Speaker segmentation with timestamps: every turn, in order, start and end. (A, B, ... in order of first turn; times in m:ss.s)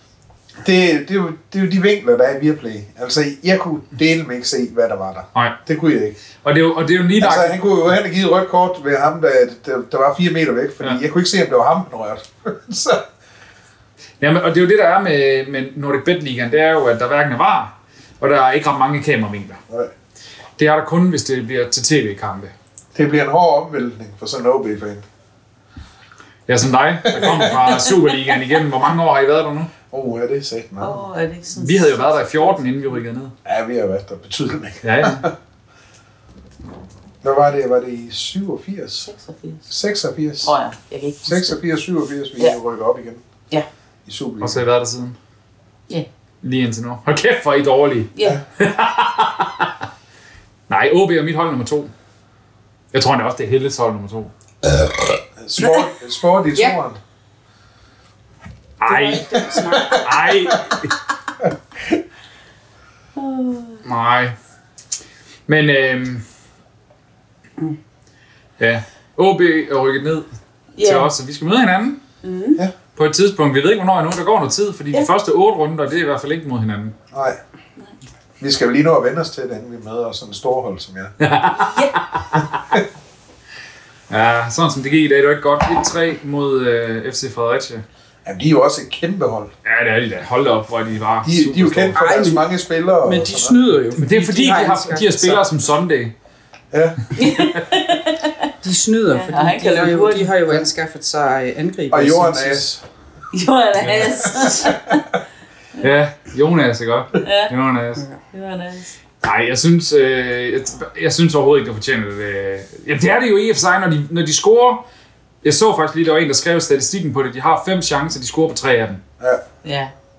0:00.6-0:06.2 A
0:06.4-0:07.6 B
0:07.2-0:13.0 A
0:14.2-0:19.6 B
0:20.6-0:22.5 B
0:22.9-0:25.0 A
0:26.5-0:29.7 B
0:27.1-0:27.7 A
0:29.9-0:31.0 A
0:30.8-0:32.6 C
0:31.6-0:33.3 B
0:33.4-0:35.3 A
0:34.8-0:35.2 B
0:37.2-0:39.1 A
0:39.0-0:39.7 C
0:39.7-0:40.5 A
0:40.4-0:41.6 C
0:41.2-0:43.2 A
0:44.1-0:44.6 A
0:44.4-0:45.2 B
0:46.4-0:49.7 B
0:48.2-0:48.4 C
0:50.7-0:51.9 B
0:52.9-0:54.3 B
0:55.4-0:57.0 A
0:58.8-1:00.9 B
0:58.8-1:00.1 D
0:59.6-1:00.3 A
1:01.4-1:02.0 A
1:03.2-1:03.8 C
1:03.8-1:04.3 B
1:05.5-1:06.2 B
1:08.6-1:10.3 B
1:10.8-1:11.1 C
1:10.8-1:12.0 B
1:12.2-1:12.6 C
1:13.0-1:16.9 B
1:17.1-1:17.4 A
1:18.4-1:21.1 A
1:21.2-1:22.4 B
1:21.5-1:22.0 C
1:24.1-1:27.8 B
1:28.2-1:29.5 A
1:29.6-1:32.0 B
1:31.2-1:33.6 A
1:31.9-1:32.5 D
1:33.0-1:35.5 D
1:34.0-1:36.1 B
1:36.7-1:37.0 A
1:37.2-1:38.4 C
1:38.6-1:42.6 D
1:39.1-1:40.3 C
1:41.9-1:42.8 A
1:43.3-1:45.1 C
1:43.8-1:44.3 B
1:45.8-1:48.0 B
1:47.2-1:47.5 C
1:48.3-1:48.9 C
1:49.2-1:54.8 B
1:55.4-1:59.0 B
1:59.6-1:59.9 C